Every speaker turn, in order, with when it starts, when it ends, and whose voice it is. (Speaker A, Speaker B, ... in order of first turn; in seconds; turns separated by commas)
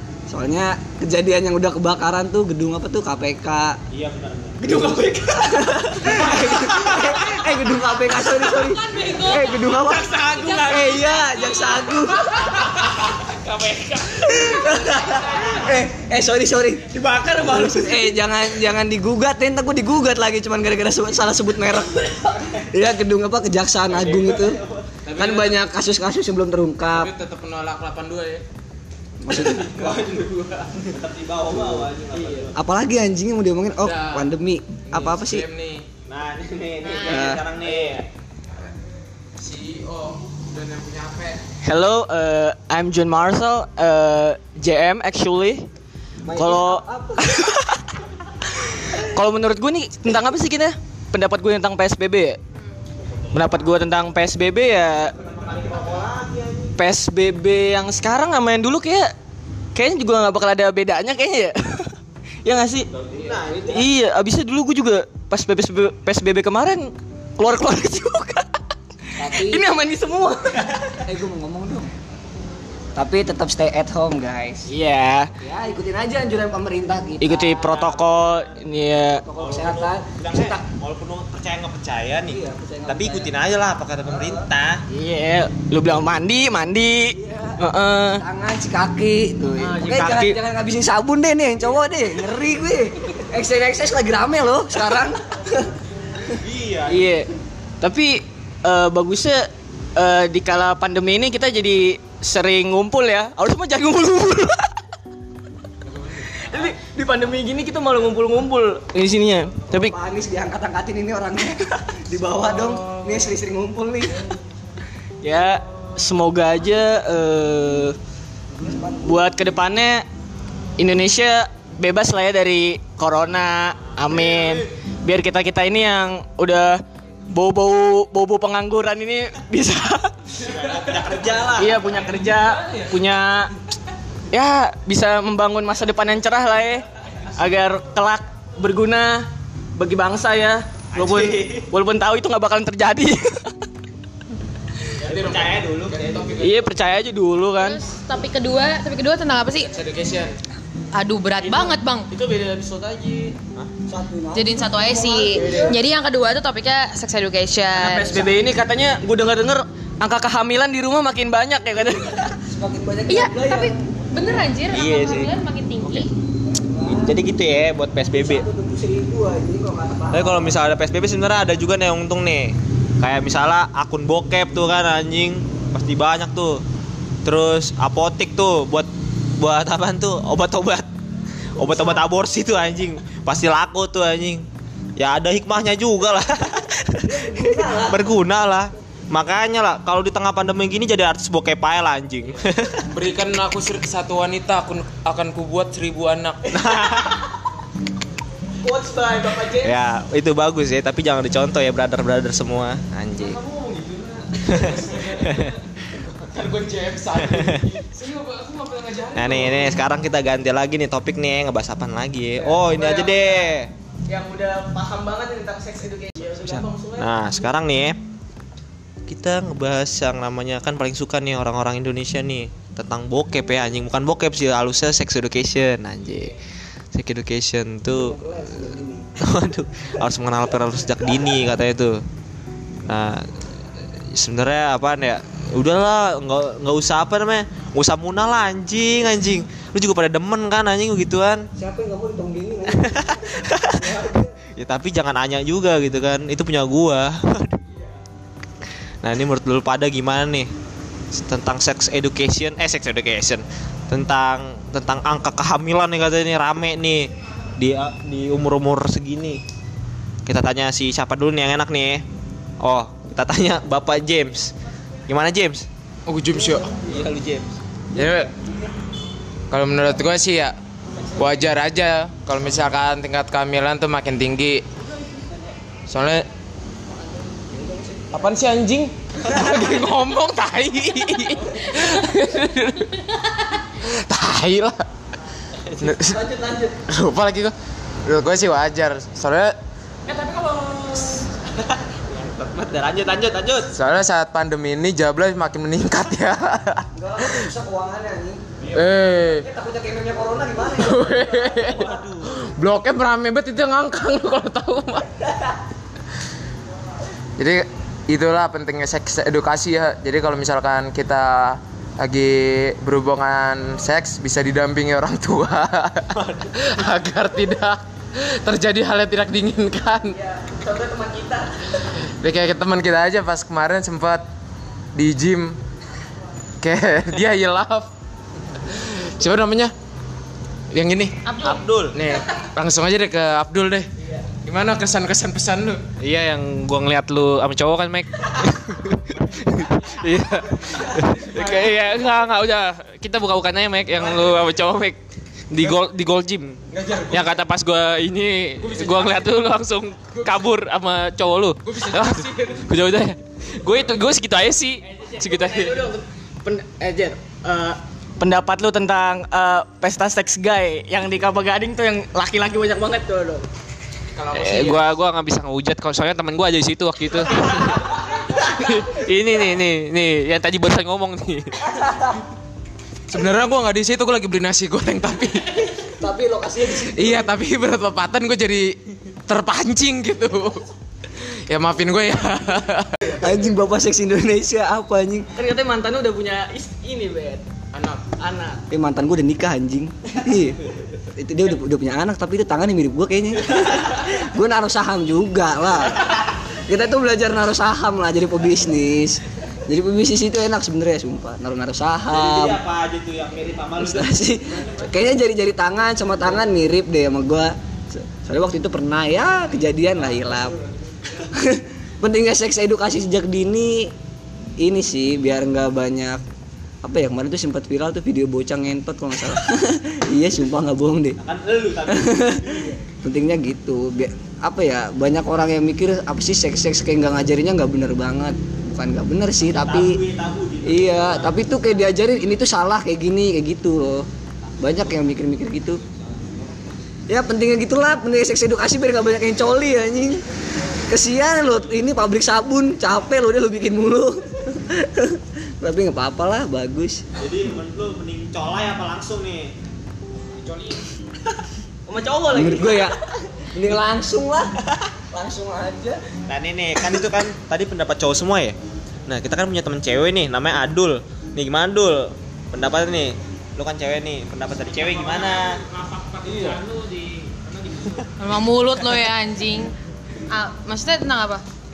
Speaker A: 0.3-3.8, Speaker B: 3.9-5.0, Speaker C: 4.6-6.1, Speaker A: 5.3-12.3, Speaker B: 6.7-7.1, Speaker D: 8.4-11.8, Speaker E: 13.5-13.8, Speaker A: 14.1-24.6, Speaker B: 16.9-17.9, Speaker B: 22.3-22.6, Speaker B: 23.9-24.9, Speaker F: 25.0-25.6, Speaker A: 25.1-27.1, Speaker F: 26.9-28.4, Speaker A: 29.2-30.1, Speaker B: 29.3-32.6, Speaker A: 31.6-31.8, Speaker C: 32.1-32.5, Speaker A: 32.5-35.4, Speaker F: 33.8-34.3, Speaker F: 34.9-35.8, Speaker B: 36.1-38.1, Speaker D: 36.8-37.3, Speaker A: 37.0-37.5, Speaker F: 39.4-41.4, Speaker C: 41.6-45.7, Speaker A: 46.2-47.5, Speaker C: 46.3-47.8, Speaker C: 48.7-52.4, Speaker B: 53.2-53.7, Speaker C: 53.3-55.1, Speaker B: 55.1-56.7, Speaker C: 56.8-59.1, Speaker C: 59.7-62.9, Speaker B: 62.9-63.9, Speaker C: 63.7-68.6, Speaker C: 69.2-70.7, Speaker A: 69.2-69.6, Speaker A: 71.0-71.9, Speaker A: 73.0-74.7, Speaker C: 74.7-75.3, Speaker A: 75.4-77.7, Speaker C: 77.2-79.2, Speaker B: 77.7-78.6, Speaker A: 79.2-80.6, Speaker B: 79.3-84.8, Speaker A: 82.3-83.3, Speaker A: 84.1-84.5, Speaker C: 84.9-88.2, Speaker A: 87.2-87.6, Speaker A: 88.2-95.7, Speaker C: 89.6-90.4, Speaker B: 96.3-97.1, Speaker C: 96.9-97.3, Speaker C: 97.8-104.7, Speaker F: 105.8-106.5, Speaker C: 106.3-110.0, Speaker A: 109.7-114.3, Speaker C: 115.2-118.0, Speaker A: 118.5-119.3, Speaker C: 119.0-120.0, Speaker C: 120.8-130.1, Speaker B: 130.4-132.0, Speaker C: 131.5-133.5, Speaker C: 134.3-136.8, Speaker C: 137.3-143.5, Speaker B: 140.9-141.7, Speaker F: 145.0-146.7, Speaker B: 145.0-146.3, Speaker C: 146.4-147.8, Speaker D: 147.6-149.7, Speaker F: 149.5-150.3, Speaker D: 150.9-152.1, Speaker C: 151.4-153.3, Speaker A: 153.9-155.8, Speaker D: 154.3-158.2, Speaker F: 155.4-155.7, Speaker C: 157.7-162.3, Speaker A: 162.4-163.8, Speaker D: 163.1-166.1, Speaker B: 164.7-166.0, Speaker A: 166.5-167.2, Speaker B: 166.9-168.4, Speaker A: 168.0-170.6, Speaker B: 170.1-176.6, Speaker B: 177.2-180.9, Speaker B: 181.6-184.4, Speaker A: 181.6-182.0, Speaker B: 185.0-192.9, Speaker A: 187.0-188.2, Speaker F: 192.9-196.5, Speaker B: 196.5-197.2, Speaker C: 196.6-197.1, Speaker C: 198.6-199.7, Speaker B: 199.6-203.4, Speaker C: 203.2-205.1, Speaker B: 204.4-205.6, Speaker F: 204.5-209.7, Speaker C: 206.3-209.3, Speaker B: 207.2-207.6, Speaker B: 209.1-213.7, Speaker C: 212.3-213.5, Speaker C: 214.1-217.1, Speaker B: 216.3-218.0, Speaker B: 219.1-226.3, Speaker B: 226.9-228.2, Speaker A: 227.9-229.1, Speaker B: 229.2-232.0, Speaker B: 232.8-233.3, Speaker B: 234.1-241.5, Speaker A: 241.6-244.3, Speaker B: 242.8-243.9, Speaker B: 244.6-247.6, Speaker B: 249.0-250.5, Speaker B: 251.1-259.4, Speaker B: 260.2-262.0, Speaker B: 262.6-264.5, Speaker B: 265.1-265.6, Speaker F: 266.1-266.8, Speaker A: 266.4-266.8, Speaker B: 266.9-267.6, Speaker F: 267.9-268.3, Speaker A: 267.9-268.7, Speaker F: 269.5-270.5, Speaker F: 271.1-274.6, Speaker F: 275.9-276.2, Speaker A: 277.4-278.1, Speaker F: 278.1-284.8, Speaker B: 285.6-286.0, Speaker F: 285.8-286.2, Speaker A: 286.1-286.7, Speaker F: 286.9-287.5, Speaker F: 288.0-289.5, Speaker C: 290.1-291.2, Speaker B: 291.5-293.7, Speaker F: 293.7-297.5, Speaker A: 296.9-298.4, Speaker F: 298.7-299.4, Speaker A: 299.4-301.5, Speaker F: 300.8-305.1, Speaker B: 301.6-302.3, Speaker F: 307.4-320.2, Speaker B: 316.1-316.7, Speaker C: 320.1-321.7, Speaker F: 321.9-324.2, Speaker F: 324.9-325.6, Speaker F: 326.6-327.9, Speaker F: 328.6-329.7, Speaker F: 330.7-331.2, Speaker D: 331.2-331.6, Speaker B: 331.4-332.0, Speaker F: 331.9-333.9, Speaker F: 334.4-335.8, Speaker E: 336.0-345.0, Speaker F: 341.2-341.7, Speaker E: 345.5-346.6, Speaker F: 346.7-347.4, Speaker E: 347.1-355.9, Speaker F: 348.6-349.3, Speaker F: 350.0-350.5, Speaker F: 351.6-352.7, Speaker C: 354.8-363.4, Speaker F: 364.1-364.9, Speaker E: 364.3-371.5, Speaker A: 371.7-372.2, Speaker F: 373.1-375.7, Speaker A: 376.0-377.3, Speaker F: 376.9-378.7, Speaker F: 379.3-382.9, Speaker A: 383.1-385.2, Speaker C: 385.4-387.4, Speaker F: 387.7-388.0, Speaker C: 388.2-388.6, Speaker A: 388.7-390.6, Speaker A: 391.1-402.6, Speaker B: 402.1-404.9, Speaker A: 403.8-410.6, Speaker A: 411.1-413.9, Speaker A: 414.6-416.2, Speaker A: 416.8-421.2, Speaker B: 421.2-422.7, Speaker A: 421.9-430.0, Speaker B: 429.4-431.4, Speaker A: 430.6-434.1, Speaker A: 434.6-435.8, Speaker B: 436.0-436.4, Speaker A: 437.1-440.2, Speaker A: 440.9-447.0, Speaker B: 447.1-449.5, Speaker C: 451.9-452.9, Speaker A: 452.3-454.5, Speaker A: 455.1-456.0, Speaker B: 456.3-458.5, Speaker B: 459.1-465.6, Speaker E: 465.0-468.1, Speaker A: 466.2-466.5, Speaker D: 468.2-469.7, Speaker D: 470.3-471.4